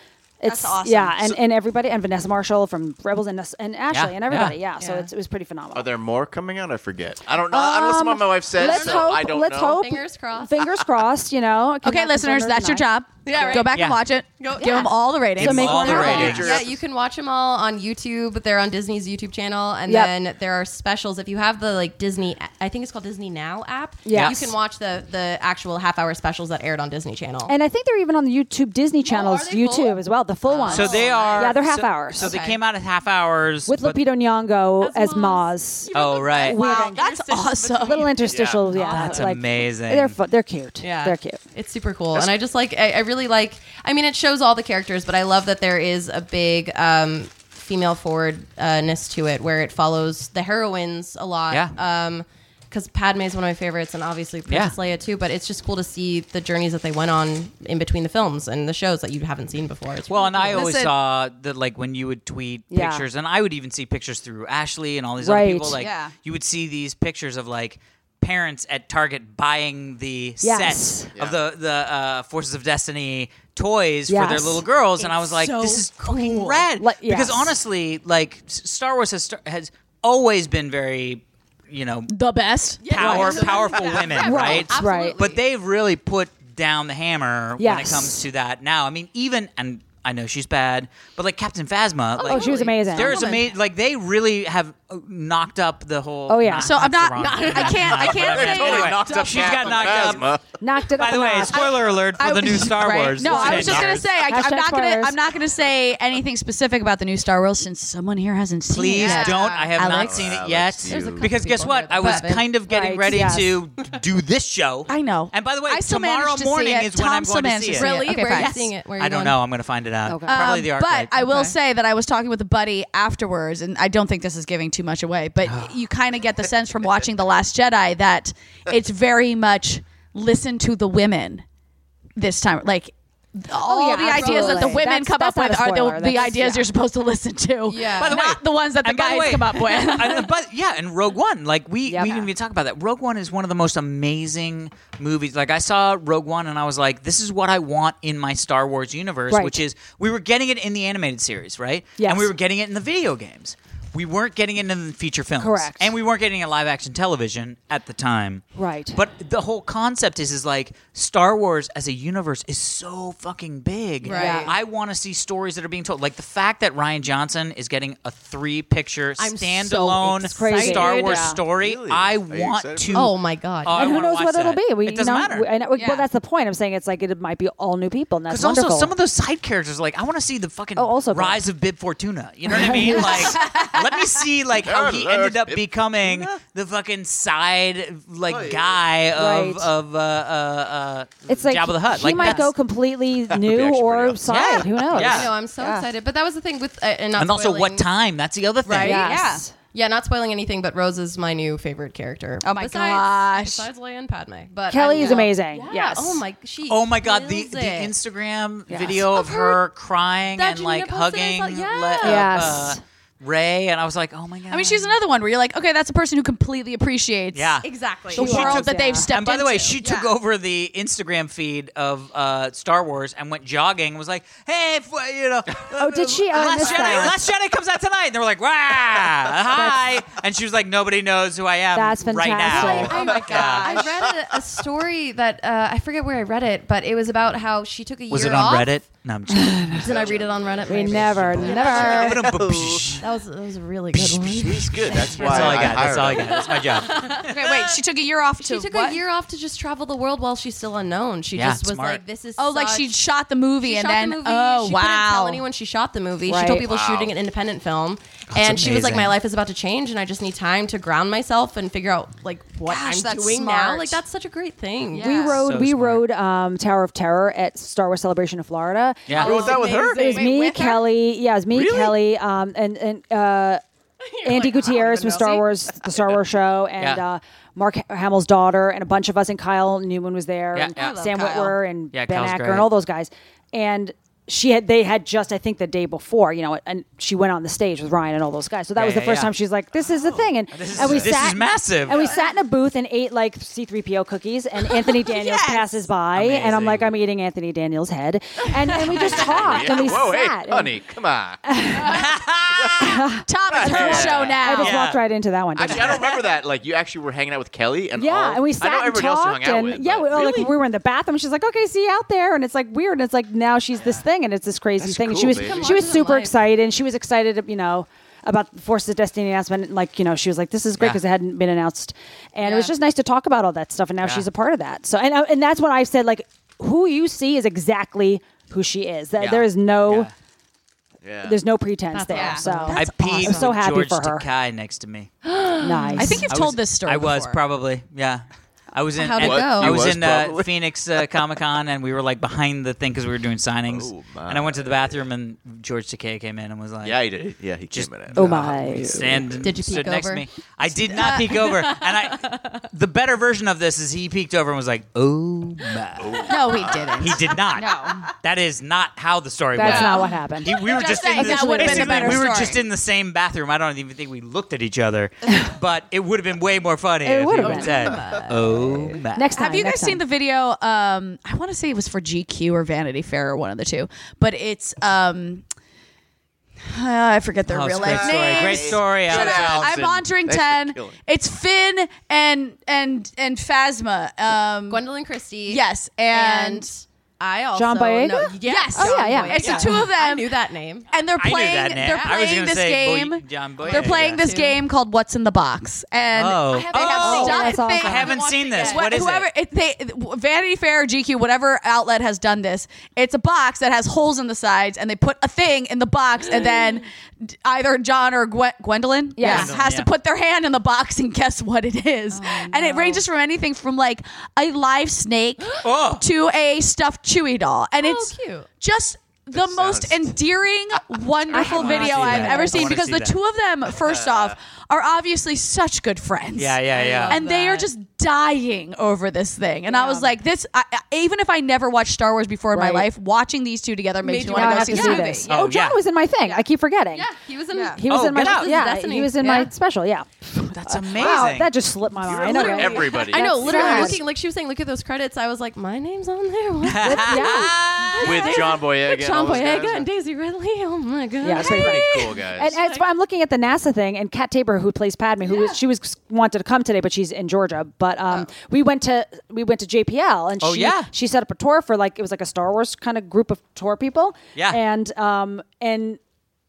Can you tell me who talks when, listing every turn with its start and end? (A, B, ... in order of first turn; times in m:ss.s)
0:00.4-0:05.9 A
0:00.4-0:01.4 B
0:03.9-0:04.6 C
0:04.8-0:05.1 B
0:05.7-0:09.8 D
0:07.5-0:13.6 A
0:08.6-0:10.6 B
0:11.8-0:16.3 E
0:13.2-0:13.7 B
0:13.7-0:14.0 C
0:14.4-0:27.6 B
0:14.6-0:16.5 A
0:15.4-0:16.6 C
0:15.7-0:16.8 D
0:19.9-0:20.1 A
0:24.1-0:24.5 A
0:24.1-0:24.5 C
0:27.5-0:32.4 A
0:29.0-0:32.6 B
0:30.6-0:34.0 C
0:33.7-0:37.0 A
0:34.8-0:39.3 B
0:35.9-0:36.6 C
0:36.6-0:38.2 E
0:37.8-0:41.4 A
0:38.2-0:38.8 D
0:38.8-0:40.2 C
0:40.8-1:00.6 B
0:54.5-0:54.8 C
1:00.1-1:22.1 C
1:00.5-1:00.9 E
1:02.7-1:03.0 A
1:05.2-1:05.8 A
1:05.8-1:06.1 E
1:10.4-1:11.1 A
1:11.2-1:11.4 D
1:14.1-1:14.6 A
1:15.0-1:15.8 E
1:15.1-1:16.6 B
1:16.8-1:17.6 A
1:22.1-1:24.1 E
1:22.8-1:25.4 B
1:22.8-1:40.3 C
1:23.0-1:23.6 A
1:24.2-1:25.2 A
1:27.6-1:28.2 A
1:32.2-1:33.4 B
1:32.2-1:33.3 A
1:36.3-1:36.8 A
1:36.6-1:39.8 E
1:37.2-1:38.0 B
1:38.0-1:40.6 D
1:39.0-1:39.8 B
1:40.6-1:41.8 A
1:41.0-1:44.1 C
1:41.5-1:50.4 E
1:43.2-1:45.2 A
1:43.5-1:44.0 D
1:48.7-2:01.1 C
1:49.0-1:50.0 B
1:49.8-1:51.3 D
1:50.9-1:52.5 B
1:52.7-1:53.6 A
1:54.9-1:58.6 E
1:57.8-1:59.4 B
2:00.1-2:00.5 A
2:00.3-2:11.4 E
2:01.2-2:01.6 B
2:05.4-2:05.8 C
2:12.2-2:20.3 E
2:13.6-2:16.7 A
2:14.1-2:14.8 B
2:17.7-2:18.2 B
2:17.9-2:55.5 C
2:21.9-2:22.3 A
2:29.3-2:29.6 A
2:32.0-2:32.3 A
2:35.4-2:35.9 A
2:38.6-2:39.0 A
2:44.0-2:44.5 B
2:44.1-2:44.5 A
2:49.2-2:51.4 B
2:50.1-2:51.4 A
2:51.5-2:53.1 D
2:52.9-2:54.1 B
2:53.7-2:58.9 A
2:55.7-2:56.1 E
2:58.3-3:12.5 C
3:00.8-3:01.4 A
3:02.5-3:03.4 A
3:02.8-3:04.1 E
3:04.6-3:06.4 D
3:08.3-3:08.9 D
3:09.1-3:09.7 A
3:11.3-3:15.8 A
3:12.2-3:12.5 E
3:13.3-3:15.2 D
3:14.3-3:15.3 C
3:14.9-3:17.9 B
3:17.2-3:19.1 C
3:18.6-3:19.2 B
3:18.8-3:19.5 A
3:18.9-3:19.4 E
3:19.7-3:27.9 B
3:22.4-3:23.7 E
3:24.7-3:26.2 A
3:25.0-3:25.3 E
3:26.7-3:35.0 C
3:28.7-3:29.0 A
3:28.9-3:29.6 B
3:30.4-3:32.6 B
3:32.0-3:32.8 A
3:34.5-3:37.6 E
3:37.3-3:53.8 C
3:37.6-3:38.5 B
3:38.1-3:39.1 A
3:38.2-3:40.1 E
3:45.7-3:47.2 A
3:49.5-3:49.8 A
3:51.7-3:53.1 A
3:52.4-3:58.8 B
3:52.8-3:53.8 E
3:53.0-3:54.1 D
3:58.1-3:59.9 C
3:59.3-3:59.7 A
3:59.7-4:02.2 B
3:59.8-4:02.9 D
4:00.7-4:02.2 A
4:01.3-4:03.1 C
4:03.0-4:07.6 B
4:03.9-4:07.6 C
4:04.3-4:06.5 D
4:06.8-4:09.0 E
4:08.4-4:13.0 B
4:11.4-4:12.0 C
4:12.4-4:15.4 E
4:13.6-4:25.4 B
4:16.3-4:16.7 A
4:16.6-4:17.2 D
4:18.3-4:19.2 C
4:22.7-4:24.0 E
4:24.9-4:25.4 E
4:25.0-4:33.6 A
4:25.4-4:26.0 C
4:29.1-4:29.4 C
4:29.1-4:30.2 D
4:29.2-4:30.4 B
4:29.2-4:30.8 E
4:31.5-4:32.0 D
4:34.0-4:35.4 B
4:34.2-5:00.8 A
4:40.5-4:41.2 C
4:40.8-4:41.5 B
4:41.9-4:42.7 C
4:48.8-4:49.3 C
4:50.1-4:51.2 D
4:50.5-4:52.1 C
4:54.7-4:55.9 E
4:56.1-4:56.9 C
4:58.8-5:01.5 D
4:59.3-4:59.7 C
5:01.4-5:02.1 A
5:01.8-5:03.0 C
5:02.5-5:04.4 D
5:02.8-5:06.2 A
5:03.3-5:04.8 E
5:04.0-5:05.0 C
5:05.6-5:10.5 D
5:08.0-5:30.1 A
5:14.8-5:15.6 D
5:15.3-5:16.4 B
5:29.2-5:30.1 C
5:31.0-5:31.4 D
5:31.2-5:34.3 A
5:31.9-5:33.5 B
5:32.1-5:33.4 E
5:32.7-5:35.1 C
5:35.2-5:36.3 B
5:35.6-5:36.3 A
5:36.0-5:37.4 E
5:36.3-5:47.0 C
5:39.0-5:39.9 B
5:39.2-5:40.5 D
5:43.7-5:45.0 D
5:46.8-5:49.5 D
5:47.7-6:09.3 C
5:48.1-5:49.3 A
5:49.4-5:50.3 B
5:50.9-5:51.8 E
5:51.1-5:51.4 B
5:52.2-5:52.6 B
5:56.0-5:57.2 D
5:56.2-5:58.1 E
5:59.5-6:02.5 A
5:59.6-6:02.6 E
6:07.0-6:08.0 A
6:07.4-6:09.0 B
6:09.1-6:10.0 A
6:09.4-6:15.4 E
6:16.6-6:24.8 E
6:17.5-6:19.7 C
6:17.8-6:21.0 D
6:24.7-6:30.9 B
6:25.5-6:26.7 E
6:27.6-6:29.7 A
6:28.4-6:30.3 E
6:30.9-7:15.3 E
6:31.2-6:34.3 C
6:31.9-6:32.2 B
6:33.6-6:34.6 B
6:36.1-6:39.3 C
6:36.6-6:39.0 B
6:37.0-6:38.1 A
6:49.2-6:49.6 A
6:49.2-6:49.9 C
6:52.1-6:53.0 B
6:55.6-6:56.1 C
6:57.8-6:58.5 B
6:59.3-7:00.2 D
7:01.3-7:02.7 A
7:01.3-7:03.2 C
7:01.6-7:02.0 B
7:03.7-7:04.4 D
7:06.4-7:07.2 C
7:06.7-7:07.7 B
7:09.7-7:10.2 A
7:12.5-7:12.9 A
7:14.0-7:15.3 B
7:14.3-7:17.1 A
7:15.3-7:15.8 C
7:16.2-7:19.5 B
7:17.5-7:17.8 E
7:17.7-7:24.0 A
7:17.9-7:18.6 C
7:19.2-7:19.5 E
7:20.4-7:21.5 C
7:22.0-7:24.0 D
7:22.1-7:32.8 B
7:23.2-7:23.9 E
7:26.6-7:28.3 C
7:26.8-7:28.0 A
7:28.0-7:29.9 D
7:31.2-7:46.0 A
7:31.3-7:32.6 D
7:40.4-7:40.9 C
7:44.4-7:44.6 C